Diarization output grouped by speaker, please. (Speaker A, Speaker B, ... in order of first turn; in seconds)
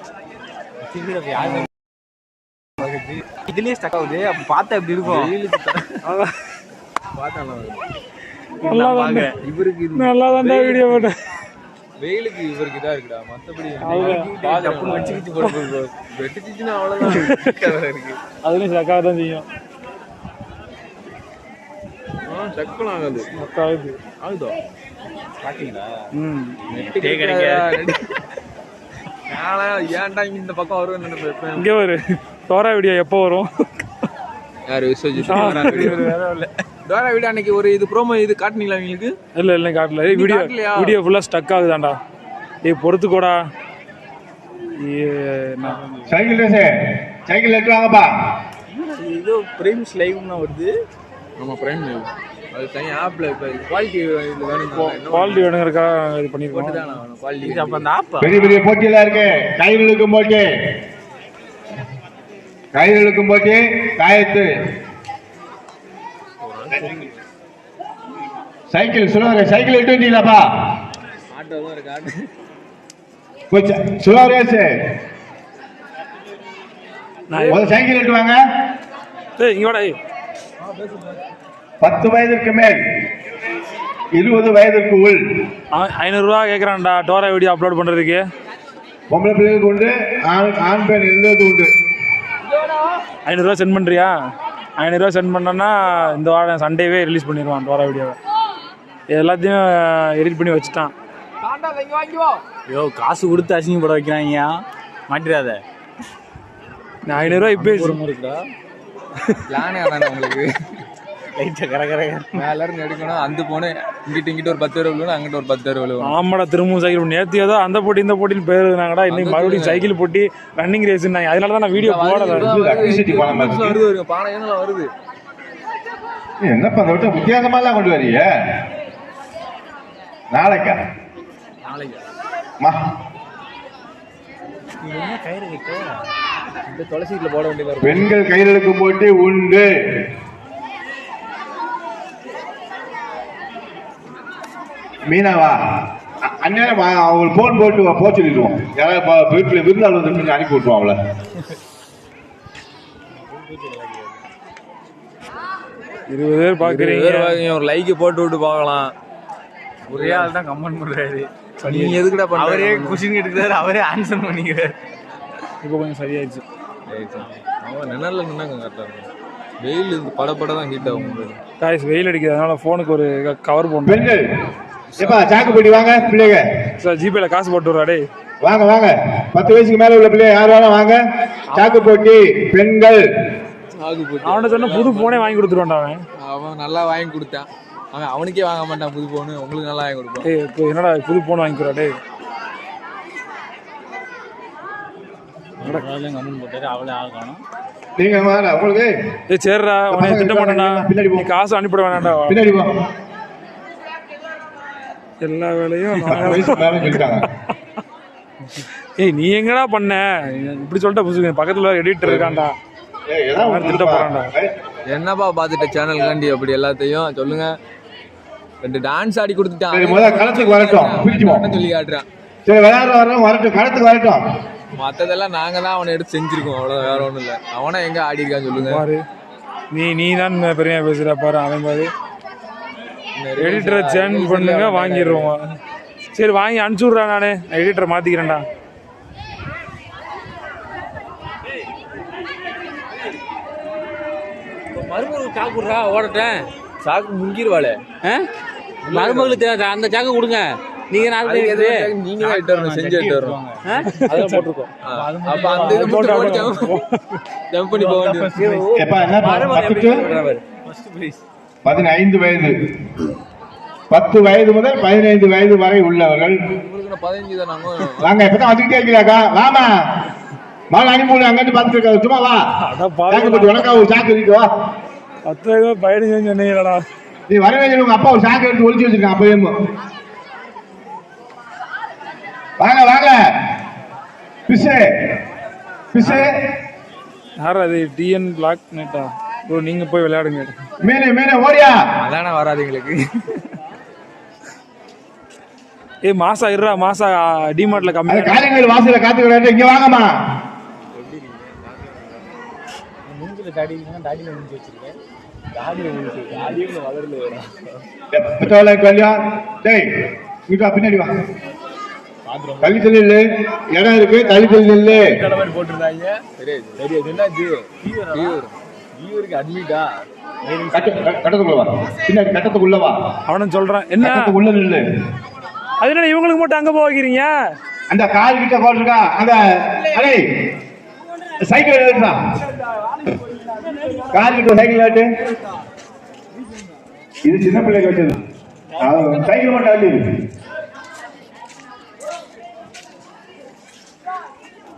Speaker A: 0.8-1.7, 2.8-5.3, 8.6-9.3, 13.9-15.8, 25.4-26.0, 26.7-27.9, 35.3-36.4, 45.6-46.1, 48.7-50.7, 57.4-58.8, 66.4-67.1, 102.7-105.6, 107.1-108.5, 111.3-112.4, 134.8-136.0, 153.1-154.2, 159.9-164.8, 195.6-197.4, 252.2-254.3, 254.9-256.4, 257.7-259.8, 260.6-261.2, 303.1-305.0, 305.5-306.6, 312.3-312.7, 316.8-318.4, 320.4-321.1
Speaker B: 5.0-6.0, 7.1-7.9, 9.4-11.1, 12.0-18.2, 22.2-23.3, 24.2-24.6, 26.7-28.2, 29.3-31.7, 34.7-36.2, 36.8-39.1, 40.1-41.0, 51.4-55.5, 56.5-57.9, 71.3-72.3, 77.3-77.7, 80.7-81.0, 101.4-102.4, 109.5-110.8, 112.3-116.2, 119.1-119.9, 121.7-124.9, 131.7-132.0, 136.7-138.1, 156.6-158.9, 159.9-160.3, 161.6-163.1, 166.9-169.1, 169.6-171.4, 174.9-176.4, 183.8-185.5, 186.2-190.3, 214.9-217.5, 218.6-222.1, 224.7-228.8, 233.2-235.3, 246.8-247.8, 248.9-249.4, 251.2-253.4, 254.1-256.8, 257.5-260.4, 266.5-268.1, 292.0-293.6, 300.9-302.2, 306.2-307.4, 314.3-319.8
Speaker C: 6.0-6.3, 8.6-9.3, 9.9-11.1, 13.8-14.3, 17.0-17.5, 18.4-19.4, 23.3-24.0, 26.1-26.6, 31.6-33.9, 35.2-36.1, 39.3-42.0, 42.6-43.4, 44.8-45.9, 54.7-56.8, 77.3-77.7, 79.4-80.0, 85.7-88.2, 93.2-94.1, 94.8-98.2, 99.1-100.9, 107.0-108.0, 116.0-122.5, 156.1-157.3, 165.6-166.4, 171.6-174.0, 176.8-178.1, 181.5-181.9, 184.2-186.0, 190.2-191.9, 199.3-202.4, 205.2-207.2, 208.6-212.5, 213.3-214.3, 228.6-229.0, 229.7-231.9, 233.4-235.5, 236.1-238.4, 253.9-254.7, 255.5-257.0, 272.6-273.9, 275.2-276.8, 286.0-286.3, 287.4-290.5, 296.0-298.5, 323.3-324.3, 325.8-327.3
Speaker D: 46.0-46.7, 47.2-48.1, 58.2-60.5, 62.7-64.5, 68.7-70.4, 73.5-74.7, 77.5-78.4, 81.8-82.8, 84.2-85.2, 89.1-91.7, 122.3-123.8, 126.4-128.3, 130.3-130.8, 137.8-139.7, 145.1-145.6, 146.2-150.9, 173.8-174.3, 175.0-176.5, 178.4-181.0, 181.5-183.0, 198.0-198.9, 199.9-201.3, 202.3-202.7, 206.0-207.3, 212.0-212.4, 213.1-214.5, 219.7-221.5, 222.4-224.2, 258.8-260.0, 261.6-263.1, 263.9-266.4, 268.0-269.7, 270.7-272.4, 273.1-274.5, 277.3-279.5, 282.6-283.2, 284.5-284.9, 285.9-286.3, 290.8-291.8, 298.1-300.1, 308.1-309.9, 310.5-311.1, 312.6-315.1, 320.7-322.9, 324.0-324.8, 327.9-330.2, 331.4-332.2, 334.1-335.1, 337.2-338.2, 338.8-340.0
Speaker E: 245.0-246.5, 248.0-248.3, 248.9-251.9